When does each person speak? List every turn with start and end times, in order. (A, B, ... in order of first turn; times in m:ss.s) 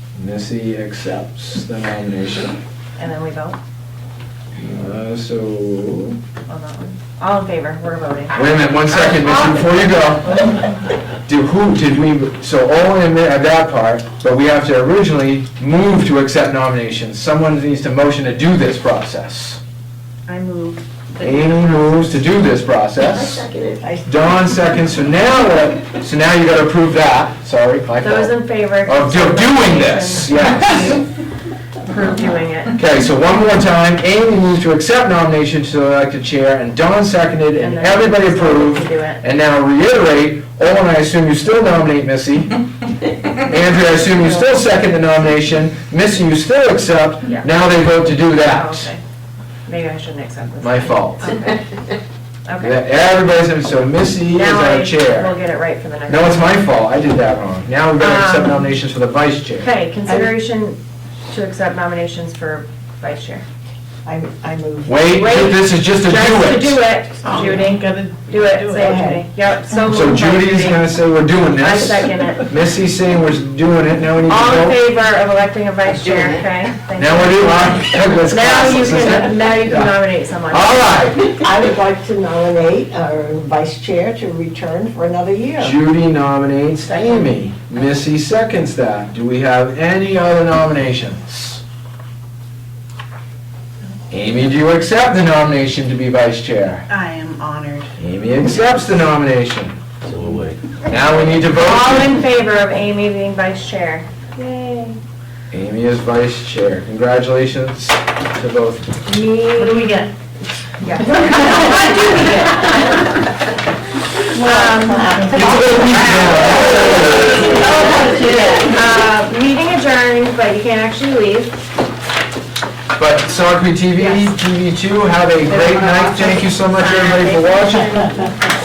0:00.2-0:02.6 A
0:03.0-0:03.6 B
0:04.6-0:06.2 A
0:06.5-0:10.6 B
0:08.3-0:10.6 A
0:11.2-0:19.6 A
0:20.3-0:22.2 B
0:21.2-0:23.5 A
0:23.4-0:24.1 C
0:24.0-0:31.0 A
0:28.0-0:31.0 B
0:31.8-0:32.8 B
0:32.7-0:42.6 A
0:37.6-0:39.2 B
0:43.4-0:48.9 A
0:48.2-0:49.0 B
0:49.6-0:51.6 B
0:50.6-0:51.3 A
0:52.4-0:52.8 B
0:52.6-0:55.4 A
0:54.3-0:56.7 B
0:56.1-0:59.7 A
0:58.0-0:58.6 B
0:59.6-1:00.8 B
1:01.3-1:03.4 B
1:04.0-1:05.0 C
1:04.8-1:06.8 A
1:05.1-1:10.9 B
1:07.2-1:09.0 D
1:07.2-1:07.6 C
1:08.8-1:09.2 C
1:09.8-1:14.8 A
1:11.6-1:12.5 B
1:14.2-1:17.7 B
1:17.0-1:20.0 A
1:18.2-1:21.0 B
1:20.5-1:21.4 A
1:21.4-1:25.8 C
1:25.6-1:31.6 A
1:27.0-1:27.2 C
1:34.1-1:36.8 A
1:36.9-1:37.9 D
1:38.0-1:42.2 A
1:41.3-1:45.0 B
1:45.5-1:48.9 A
1:49.0-1:50.1 B
1:49.6-1:50.1 D
1:50.8-1:52.9 B
1:51.1-1:53.0 D
1:51.5-1:53.0 C
1:54.3-1:56.3 D
1:54.4-1:58.6 C
1:54.4-1:55.1 B
1:55.3-1:57.6 A
1:57.4-1:58.7 D
1:57.4-2:01.5 B
2:03.0-2:08.3 A
2:04.0-2:04.3 B
2:05.4-2:08.3 B